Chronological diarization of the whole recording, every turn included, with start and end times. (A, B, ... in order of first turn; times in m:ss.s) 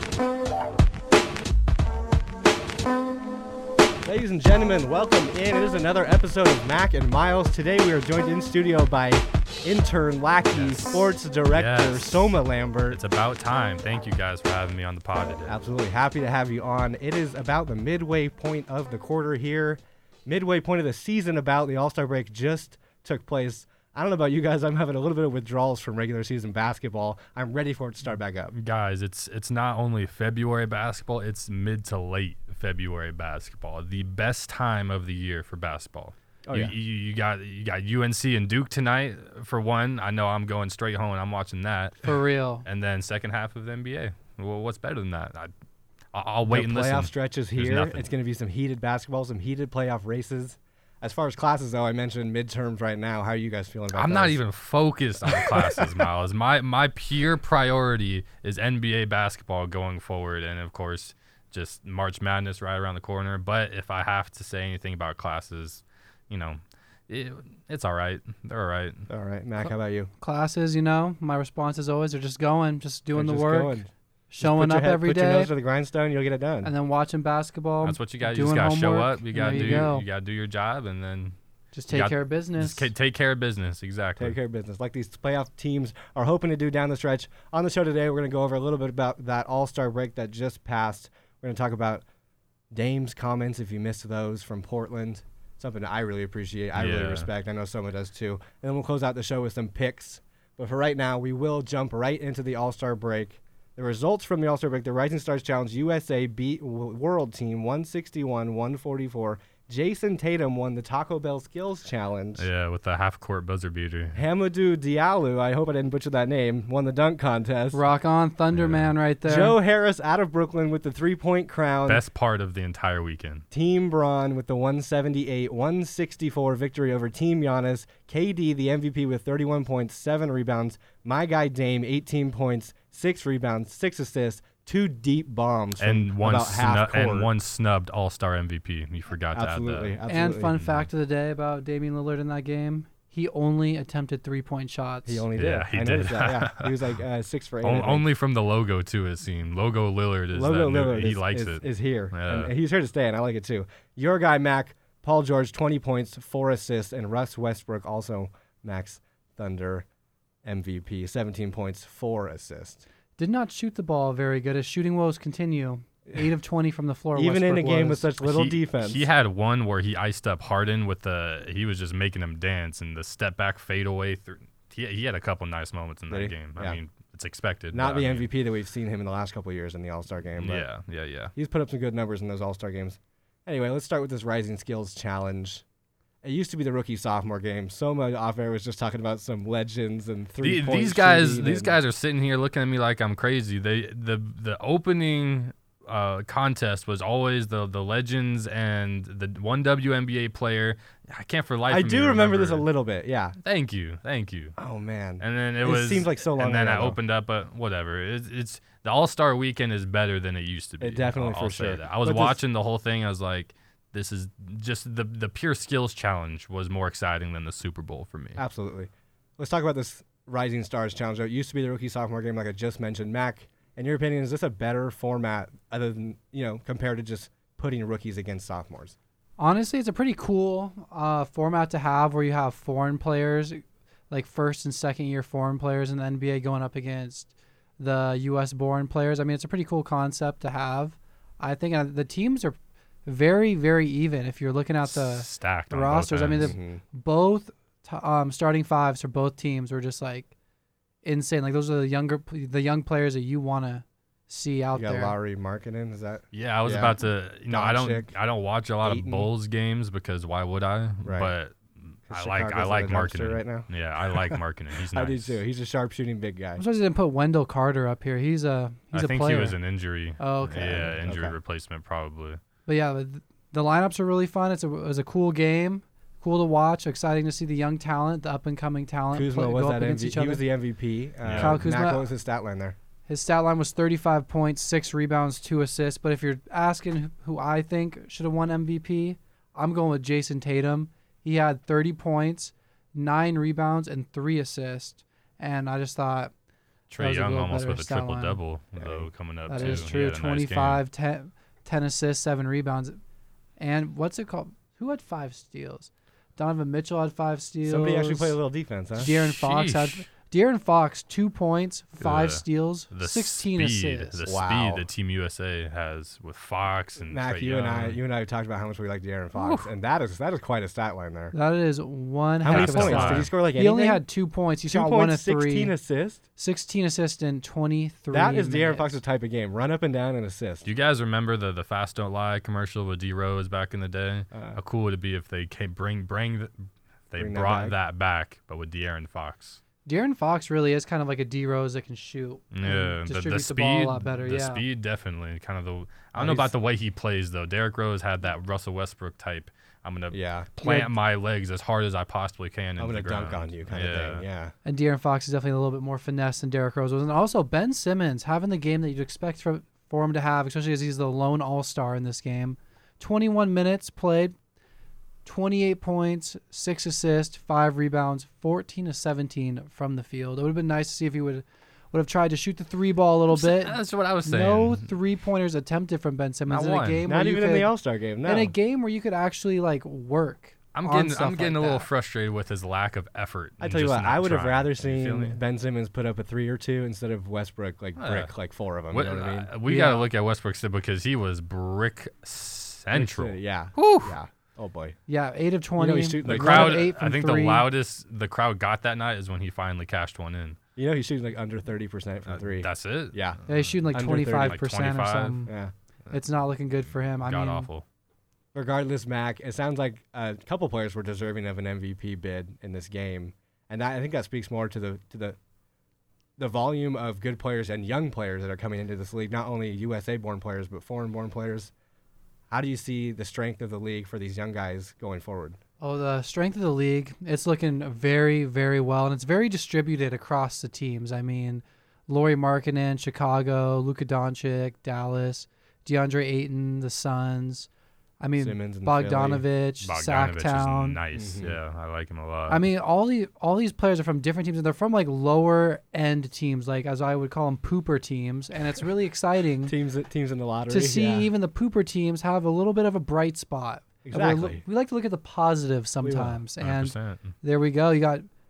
0:04.0-0:13.0 A
0:10.5-0:12.4 B
0:12.9-0:15.5 B
0:15.5-0:28.5 A
0:28.5-0:42.1 B
0:36.4-0:36.7 A
0:42.0-0:42.6 C
0:42.6-0:45.5 B
0:46.1-0:48.0 B
0:46.5-0:54.4 A
0:53.9-1:09.1 B
0:55.2-0:55.9 A
1:09.1-1:10.1 A
1:10.2-1:15.5 C
1:13.1-1:16.7 A
1:16.6-1:20.0 C
1:17.8-1:21.4 B
1:19.5-1:19.9 A
1:21.7-1:22.9 C
1:21.9-1:24.4 B
1:24.2-1:32.0 A
1:32.7-1:52.4 A
1:36.7-1:37.3 B
1:52.4-1:54.2 B
1:54.1-1:57.8 A
1:57.7-1:59.6 C
1:58.5-1:58.9 B
1:59.2-2:02.0 A
2:01.8-2:03.4 B
2:03.5-2:17.3 A
2:15.8-2:19.9 B
2:19.3-2:20.6 A
2:20.1-2:25.2 C
2:20.6-2:20.8 B
2:25.1-2:28.0 A
2:25.4-2:26.7 B
2:27.6-2:32.5 B
2:30.3-2:39.8 A
2:40.4-2:42.8 A
2:43.2-2:48.1 C
2:47.2-2:49.1 A
2:48.2-2:58.3 B
2:56.1-2:56.8 A
2:57.7-3:00.6 A
3:00.4-3:01.3 B
3:01.4-3:05.6 A
3:06.2-3:11.8 A
3:10.4-3:22.6 B
3:21.7-3:23.4 A
3:23.4-3:24.6 B
3:24.6-3:27.0 A
3:25.2-3:38.4 B
3:30.8-3:32.4 A
3:38.4-3:49.0 A
3:49.4-4:10.3 C
4:04.8-4:06.5 B
4:06.3-4:06.8 A
4:11.0-4:15.2 C
4:14.7-4:18.1 A
4:16.3-4:25.4 B
4:18.8-4:19.3 A
4:21.0-4:21.3 A
4:22.1-4:26.6 A
4:26.6-4:29.6 C
4:28.9-4:32.4 B
4:30.2-4:30.8 C
4:30.4-4:31.3 A
4:32.6-4:40.4 C
4:39.1-4:42.8 A
4:41.2-4:41.6 B
4:41.4-4:42.1 C
4:43.1-4:56.3 C
4:56.9-5:00.8 B
4:57.0-4:58.4 C
4:58.8-4:59.9 A
4:59.5-5:03.0 C
5:03.6-5:08.4 C
5:07.6-5:09.1 A
5:09.0-5:10.0 B
5:09.0-5:14.2 C
5:12.0-5:18.0 B
5:14.2-5:14.8 A
5:17.0-5:21.3 A
5:19.4-5:19.7 B
5:21.3-5:25.7 C
5:22.4-5:24.0 A
5:22.5-5:23.3 B
5:24.7-5:26.2 A
5:26.4-5:28.9 C
5:28.1-5:30.7 A
5:30.6-5:36.5 B
5:34.3-5:34.6 A
5:37.1-5:39.6 B
5:37.2-5:37.8 A
5:39.8-5:44.6 C
5:42.5-5:54.2 B
5:46.1-5:46.5 A
5:50.1-5:50.5 A
5:50.6-5:51.0 C
5:52.8-5:54.5 A
5:54.6-6:04.3 C
6:05.2-6:17.7 C
6:13.3-6:14.9 B
6:16.5-6:17.0 B
6:17.1-6:18.5 A
6:18.2-6:21.9 C
6:20.7-6:25.4 B
6:23.6-6:29.5 A
6:28.0-6:28.3 B
6:28.9-6:34.2 B
6:29.6-6:30.1 C
6:32.9-6:35.0 A
6:35.1-6:37.6 C
6:35.8-6:36.9 A
6:36.2-6:40.6 B
6:40.8-6:43.4 A
6:42.3-6:43.7 B
6:43.5-6:45.5 C
6:43.9-6:44.5 A
6:44.3-6:45.4 B
6:45.5-6:45.7 A
6:46.1-6:47.7 C
6:47.2-6:47.8 B
6:48.5-6:55.4 A
6:56.4-7:01.7 A
7:02.5-7:05.6 A
7:05.8-7:17.7 C
7:18.2-7:21.0 C
7:18.4-7:19.4 A
7:19.8-7:22.6 B
7:21.1-7:21.6 A
7:22.5-7:29.7 C
7:29.6-7:31.3 A
7:30.7-7:38.3 C
7:34.0-7:34.6 A
7:36.0-7:36.4 A
7:36.6-7:37.3 B